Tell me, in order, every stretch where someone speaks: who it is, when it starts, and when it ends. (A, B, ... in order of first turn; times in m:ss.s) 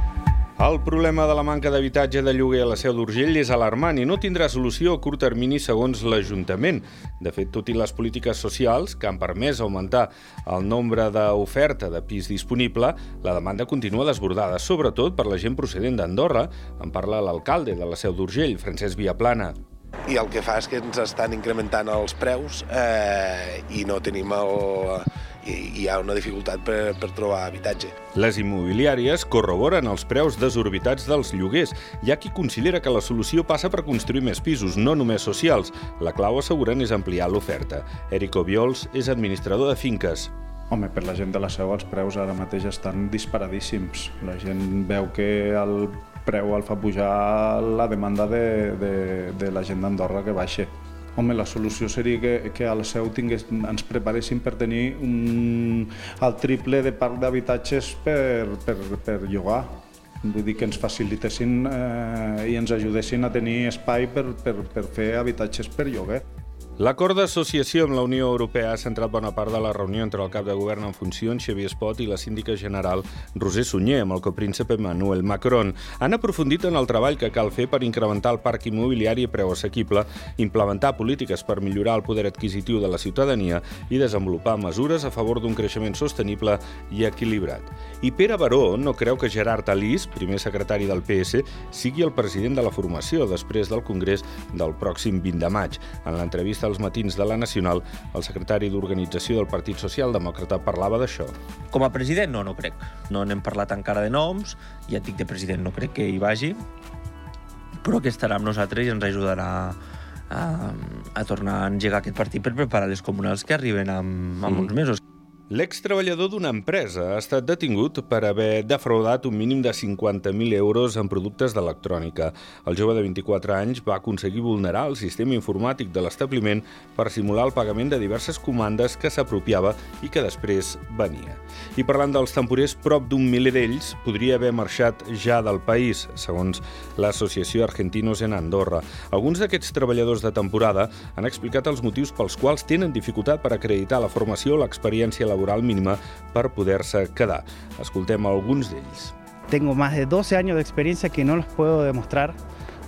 0:00.6-0:19.6 A
0:20.1-0:28.0 B
0:28.1-0:40.3 A
0:40.7-0:59.7 C
1:00.2-1:06.2 C
1:06.8-1:41.3 A
1:41.7-1:46.6 D
1:47.8-1:49.8 D
1:50.3-1:55.0 D
1:55.5-2:29.1 A
2:29.5-2:32.4 E